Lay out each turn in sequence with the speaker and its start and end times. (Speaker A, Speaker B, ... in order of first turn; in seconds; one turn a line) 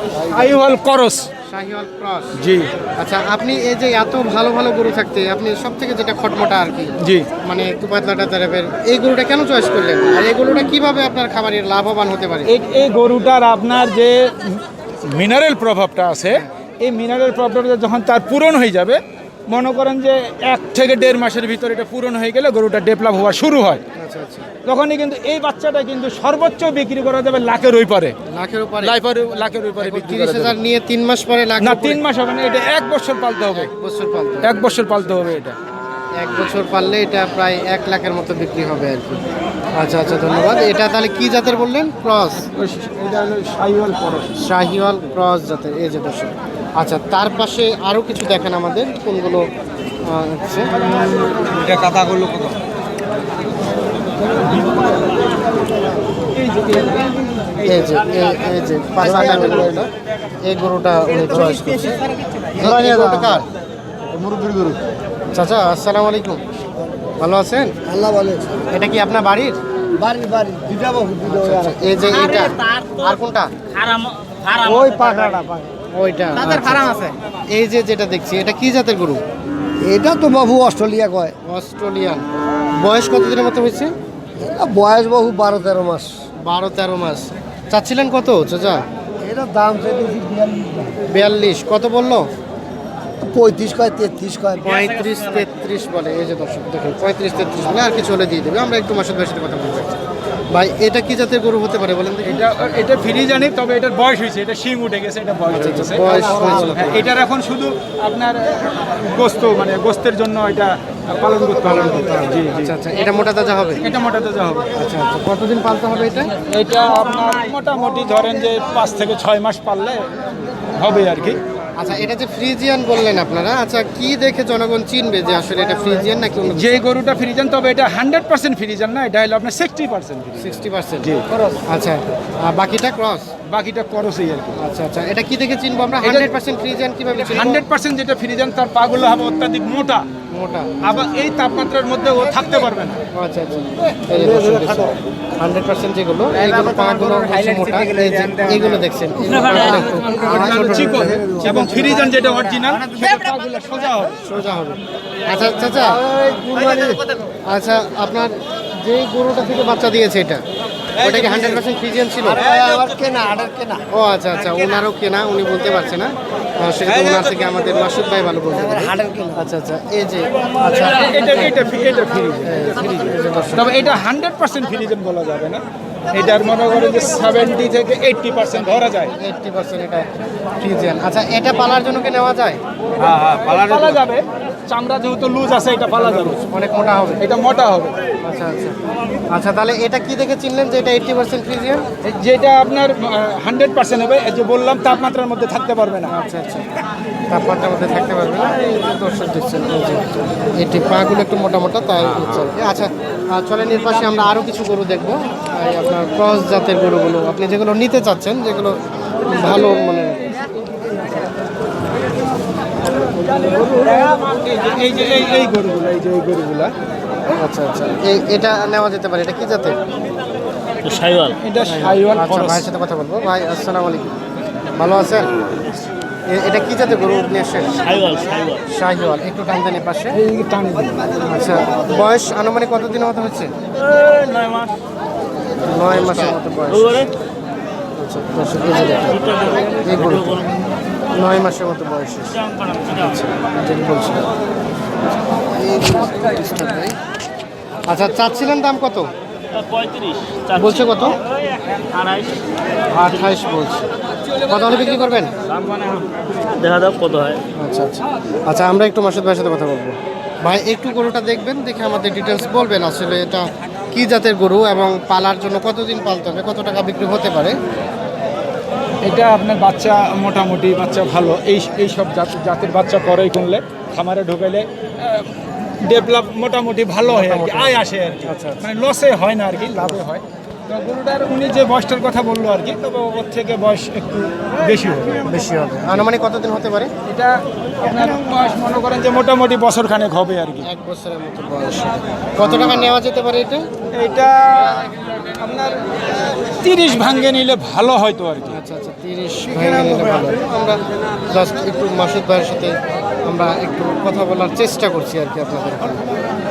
Speaker A: 0.2-1.3
Speaker B: 1.4-2.4
Speaker A: 2.4-2.7
Speaker B: 3.0-12.5
Speaker A: 7.0-7.3
Speaker A: 12.5-23.8
Speaker B: 23.9-24.5
Speaker A: 24.6-28.1
Speaker B: 28.3-28.9
Speaker A: 28.8-30.6
Speaker B: 29.8-32.0
Speaker A: 31.6-33.7
Speaker B: 33.5-35.4
Speaker A: 34.4-35.6
Speaker B: 36.2-39.2
Speaker B: 39.8-42.5
Speaker A: 42.5-44.3
Speaker B: 44.4-49.5
Speaker B: 50.0-50.8
Speaker A: 51.5-52.2
Speaker C: 51.7-52.5
Speaker A: 56.3-57.9
Speaker B: 57.6-59.9
Speaker D: 59.0-59.6
Speaker B: 60.4-62.0
Speaker B: 62.5-63.5
Speaker D: 62.8-63.3
Speaker D: 64.2-64.7
Speaker C: 64.2-64.7
Speaker B: 65.3-66.4
Speaker B: 67.2-67.7
Speaker D: 67.8-68.6
Speaker B: 68.7-69.6
Speaker D: 69.9-72.0
Speaker B: 71.2-73.5
Speaker C: 72.2-73.1
Speaker C: 73.7-75.1
Speaker D: 74.6-75.7
Speaker B: 75.9-79.2
Speaker D: 79.8-81.3
Speaker B: 81.4-82.2
Speaker B: 82.8-83.9
Speaker D: 84.4-86.1
Speaker B: 86.4-88.8
Speaker D: 89.2-91.0
Speaker B: 91.1-92.2
Speaker D: 93.2-94.7
Speaker B: 94.6-100.0
Speaker B: 100.5-102.6
Speaker A: 102.2-112.7
Speaker B: 105.5-107.1
Speaker B: 111.6-113.8
Speaker A: 113.8-114.7
Speaker B: 114.8-116.3
Speaker A: 116.5-120.1
Speaker A: 120.6-121.4
Speaker B: 121.8-126.8
Speaker A: 126.5-131.6
Speaker B: 130.4-131.2
Speaker B: 131.7-133.3
Speaker A: 133.4-134.6
Speaker B: 134.6-137.6
Speaker A: 136.0-136.3
Speaker A: 137.1-140.1
Speaker B: 140.3-141.0
Speaker A: 140.8-143.0
Speaker B: 143.1-151.6
Speaker A: 144.3-144.7
Speaker A: 146.4-148.7
Speaker A: 149.5-154.2
Speaker D: 150.3-152.1
Speaker B: 154.2-156.0
Speaker D: 155.8-157.1
Speaker B: 157.5-160.4
Speaker B: 161.0-162.4
Speaker D: 162.3-163.8
Speaker B: 163.9-171.5
Speaker D: 168.9-169.3
Speaker A: 170.8-175.6
Speaker B: 172.4-174.0
Speaker A: 176.1-179.1
Speaker B: 178.5-182.6
Speaker A: 183.0-186.4
Speaker C: 183.1-183.8
Speaker B: 185.9-187.2
Speaker A: 187.2-187.9
Speaker B: 188.2-188.8
Speaker B: 189.3-191.8
Speaker A: 192.0-196.1
Speaker B: 196.1-200.0
Speaker B: 200.6-210.4
Speaker A: 213.4-216.7
Speaker B: 217.3-219.8
Speaker C: 220.8-221.4
Speaker A: 221.4-222.7
Speaker B: 221.6-224.1
Speaker B: 224.8-225.3
Speaker B: 226.3-227.7
Speaker C: 227.7-228.6
Speaker B: 228.7-230.2
Speaker A: 230.1-231.0
Speaker B: 231.2-233.5
Speaker C: 233.8-234.8
Speaker B: 235.6-237.1
Speaker C: 236.1-237.1
Speaker B: 238.0-239.3
Speaker C: 239.2-240.4
Speaker B: 239.8-240.4
Speaker B: 241.2-244.2
Speaker B: 245.5-246.9
Speaker B: 247.9-249.1
Speaker C: 249.5-250.8
Speaker B: 250.6-251.2
Speaker C: 251.7-252.4
Speaker B: 252.9-253.8
Speaker B: 254.5-255.3
Speaker C: 255.5-257.4
Speaker B: 257.6-267.5
Speaker A: 269.0-285.2
Speaker B: 277.0-278.6
Speaker B: 285.2-286.9
Speaker A: 287.1-290.7
Speaker B: 290.6-293.6
Speaker A: 293.9-298.6
Speaker B: 298.5-306.0